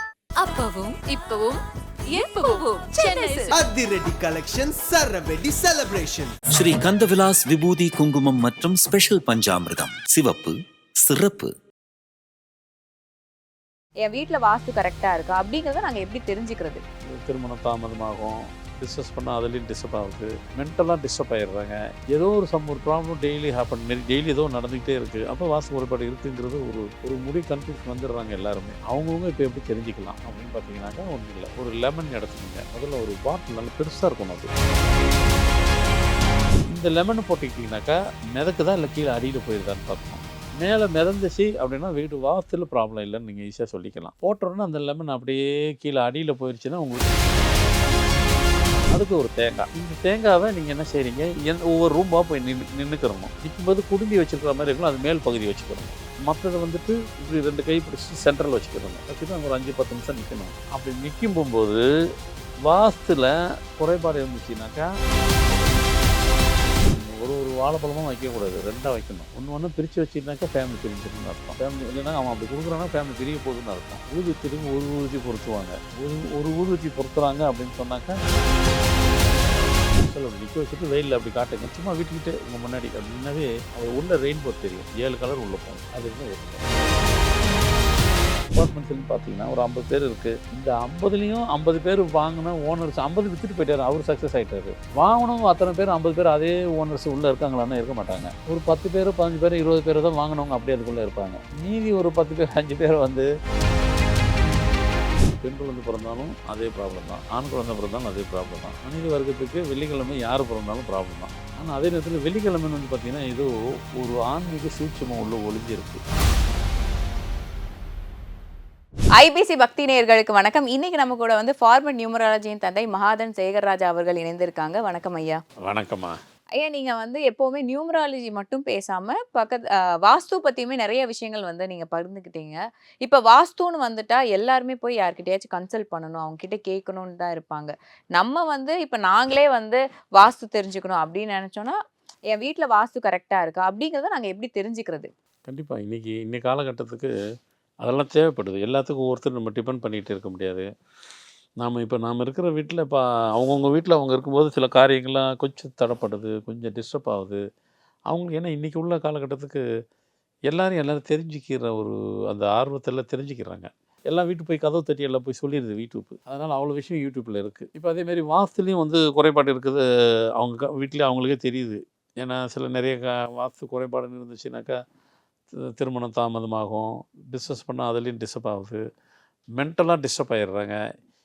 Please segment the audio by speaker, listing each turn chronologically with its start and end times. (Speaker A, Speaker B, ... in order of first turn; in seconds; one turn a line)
Speaker A: 0.4-3.6
Speaker B: 3.5-6.3
Speaker C: 6.5-11.5
Speaker D: 14.0-16.8
Speaker E: 17.0-34.5
Speaker E: 36.7-47.1
Speaker E: 48.9-61.8
Speaker E: 62.6-64.9
Speaker E: 66.8-78.2
Speaker E: 80.0-86.6
Speaker E: 88.5-103.3
Speaker E: 105.3-116.0
Speaker D: 119.2-125.4
Speaker E: 125.6-126.2
Speaker D: 126.6-141.8
Speaker D: 142.3-145.1
Speaker E: 145.4-147.1
Speaker E: 147.8-150.7
Speaker E: 151.6-157.4
Speaker E: 158.1-159.6
Speaker E: 160.5-174.7
Speaker E: 175.5-178.8
Speaker E: 179.5-180.8